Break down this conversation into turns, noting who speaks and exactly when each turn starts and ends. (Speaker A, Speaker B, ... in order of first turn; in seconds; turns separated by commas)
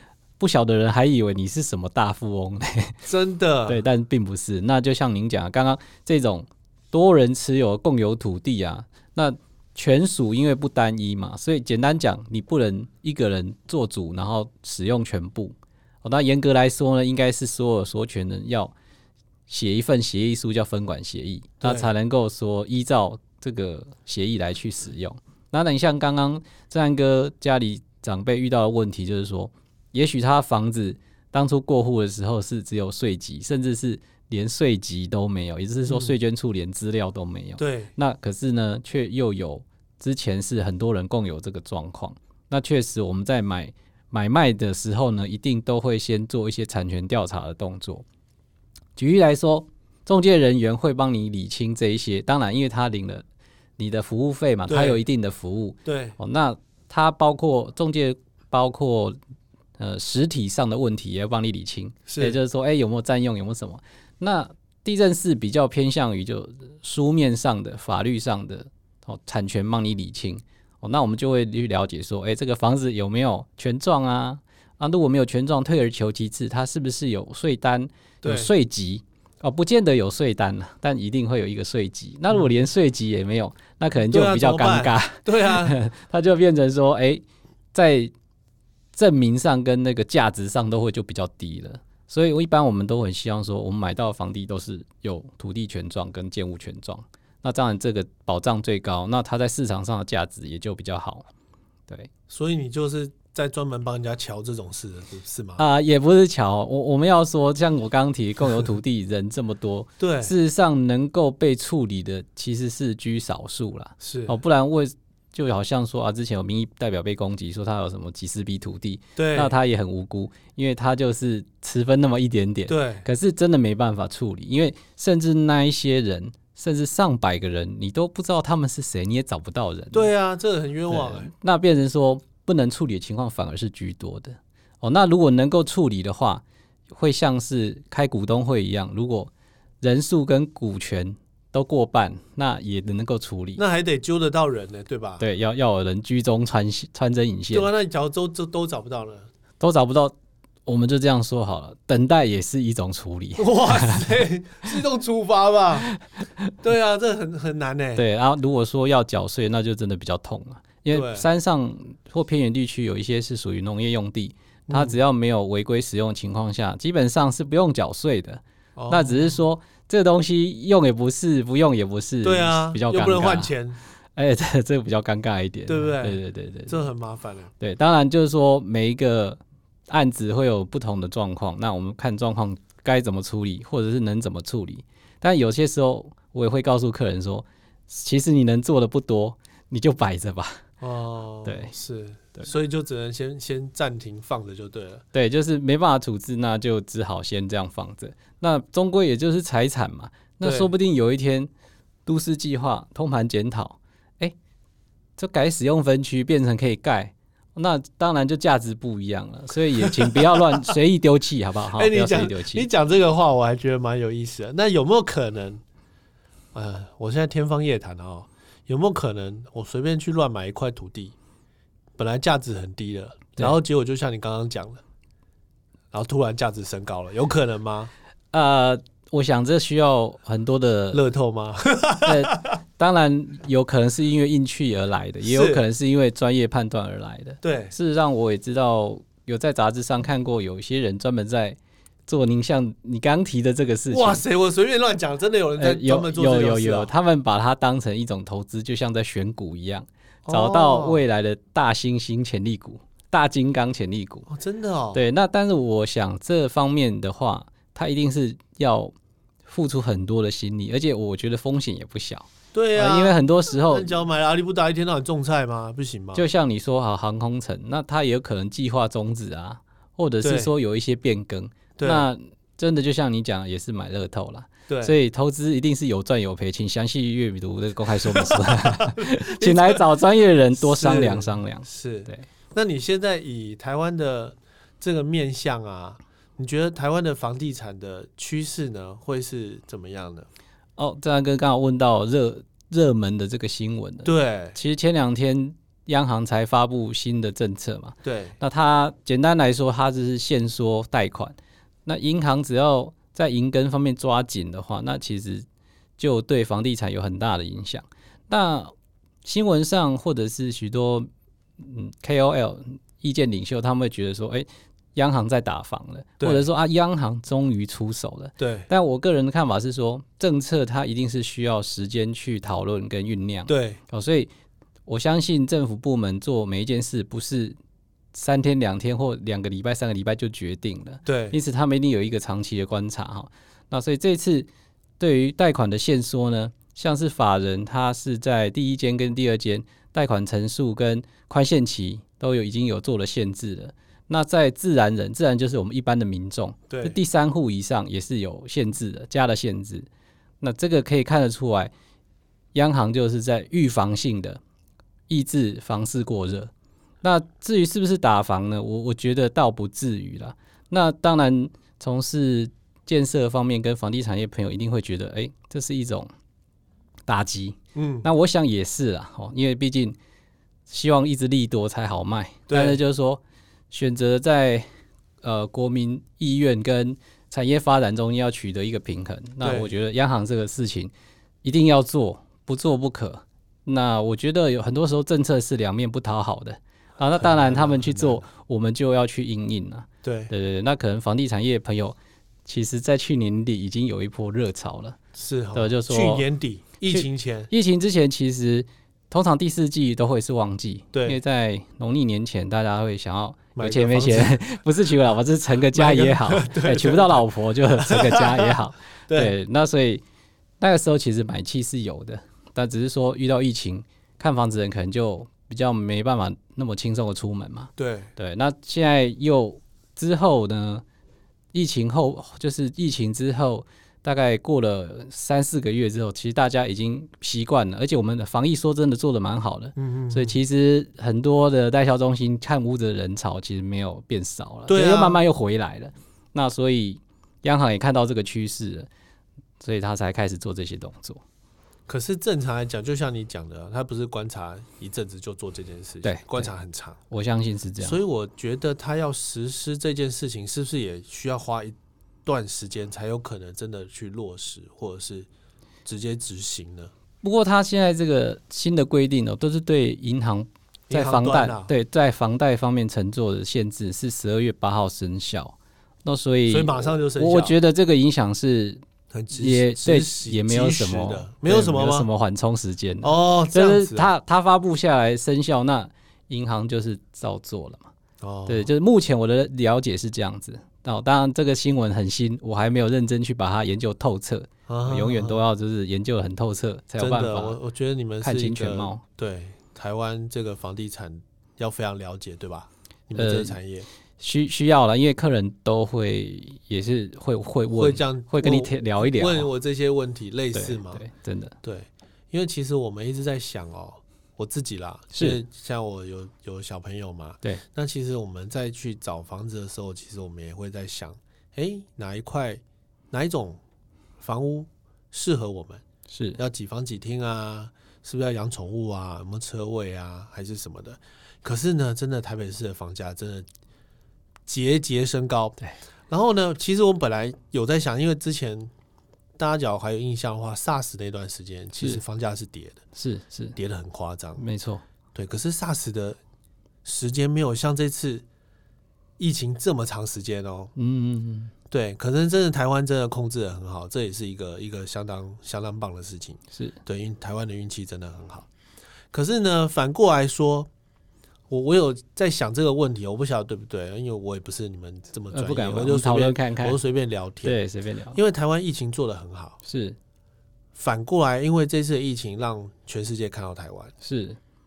Speaker A: 0.4-3.0, Speaker B: 3.0-3.8, Speaker A: 3.7-18.7, Speaker A: 19.5-48.0, Speaker B: 21.6-21.9, Speaker B: 35.9-36.1, Speaker B: 37.6-37.9, Speaker A: 49.0-53.2, Speaker A: 53.8-59.2, Speaker B: 54.7-55.0, Speaker B: 55.8-56.2, Speaker A: 59.8-87.2, Speaker B: 62.1-62.4, Speaker B: 78.2-78.5, Speaker B: 84.0-85.8, Speaker A: 87.7-88.1, Speaker A: 88.9-101.2, Speaker B: 102.3-105.6, Speaker A: 105.6-130.1, Speaker B: 110.0-110.3, Speaker B: 114.0-114.3, Speaker B: 119.2-119.5, Speaker B: 122.7-123.0, Speaker B: 129.9-131.3, Speaker A: 130.9-143.6, Speaker B: 143.6-145.2, Speaker A: 145.2-147.7, Speaker B: 147.5-149.3, Speaker A: 149.6-154.2, Speaker B: 153.4-155.9, Speaker A: 155.9-156.4, Speaker B: 156.6-158.0, Speaker A: 157.9-173.5, Speaker B: 160.9-161.3, Speaker B: 164.7-165.0, Speaker B: 168.8-169.4, Speaker B: 172.2-173.8, Speaker A: 174.2-176.8, Speaker B: 175.7-177.5, Speaker A: 177.6-190.6, Speaker B: 190.8-195.0, Speaker A: 191.4-191.7, Speaker A: 195.1-201.5, Speaker B: 200.4-200.7, Speaker A: 202.1-204.3, Speaker A: 205.2-212.7, Speaker B: 209.8-210.7, Speaker B: 211.8-215.6, Speaker B: 216.5-221.1, Speaker B: 222.0-224.8, Speaker B: 225.9-227.9, Speaker A: 228.3-231.1, Speaker B: 230.9-232.5, Speaker A: 232.0-244.2, Speaker B: 235.2-235.6, Speaker B: 237.4-237.7, Speaker B: 243.9-246.9, Speaker A: 245.6-254.3, Speaker B: 250.2-251.0, Speaker B: 254.3-255.0, Speaker A: 254.9-258.9, Speaker A: 259.4-263.9, Speaker B: 262.5-266.2, Speaker A: 266.1-282.2, Speaker B: 270.2-270.5, Speaker B: 271.8-272.1, Speaker B: 274.7-274.9, Speaker B: 278.1-279.8, Speaker B: 280.5-290.3, Speaker A: 290.8-305.4, Speaker B: 294.0-294.6, Speaker B: 298.0-298.4, Speaker A: 306.0-308.7, Speaker A: 309.2-311.1, Speaker A: 311.6-324.3, Speaker B: 316.2-316.4, Speaker B: 318.4-318.7, Speaker B: 323.5-323.8, Speaker A: 324.9-327.6, Speaker A: 328.1-334.5, Speaker B: 331.0-331.4, Speaker A: 335.0-349.9, Speaker B: 346.7-347.0, Speaker A: 350.4-351.7, Speaker A: 352.5-354.4, Speaker A: 355.1-356.5, Speaker A: 357.0-366.1, Speaker A: 367.1-370.0, Speaker B: 367.7-368.1, Speaker A: 370.7-374.6, Speaker B: 372.5-372.8, Speaker A: 375.2-380.9, Speaker B: 379.4-379.7, Speaker A: 381.4-395.0, Speaker B: 387.2-388.2, Speaker B: 390.0-390.3, Speaker B: 395.1-397.5, Speaker A: 395.5-396.2, Speaker A: 396.9-410.0, Speaker B: 400.9-401.2, Speaker B: 403.6-404.4, Speaker B: 405.7-407.2, Speaker B: 407.8-408.6, Speaker B: 409.1-409.3, Speaker A: 410.6-420.8, Speaker B: 417.8-418.1, Speaker A: 421.5-438.9, Speaker B: 429.8-430.4, Speaker B: 434.7-435.2, Speaker A: 439.6-441.2, Speaker B: 441.9-447.0, Speaker A: 446.0-446.5, Speaker A: 447.1-448.0, Speaker B: 447.8-455.3, Speaker B: 455.8-456.9, Speaker A: 457.2-468.8, Speaker B: 460.9-461.7, Speaker B: 466.5-467.6, Speaker B: 469.1-472.1, Speaker A: 469.3-477.9, Speaker B: 473.0-474.1, Speaker B: 478.2-478.7, Speaker A: 478.5-487.6, Speaker B: 484.7-485.4, Speaker B: 487.0-493.9, Speaker A: 488.2-489.0, Speaker A: 493.1-493.6, Speaker A: 494.2-499.5, Speaker B: 497.7-501.0, Speaker A: 500.5-501.6, Speaker B: 501.6-513.6, Speaker A: 505.1-505.4, Speaker B: 514.2-515.8, Speaker A: 516.1-516.4, Speaker B: 516.4-523.5, Speaker B: 524.5-525.6, Speaker B: 526.1-528.7, Speaker B: 529.4-532.8, Speaker A: 532.9-533.6, Speaker B: 533.5-534.4, Speaker A: 534.4-534.8, Speaker B: 535.1-536.2, Speaker B: 536.8-538.2, Speaker B: 539.2-540.7, Speaker A: 540.8-541.5, Speaker B: 541.7-548.5, Speaker B: 549.1-550.7, Speaker B: 551.5-557.6, Speaker A: 555.3-556.8, Speaker A: 557.4-558.2, Speaker B: 558.1-559.6, Speaker A: 559.6-560.0, Speaker B: 560.7-563.9, Speaker A: 564.0-564.4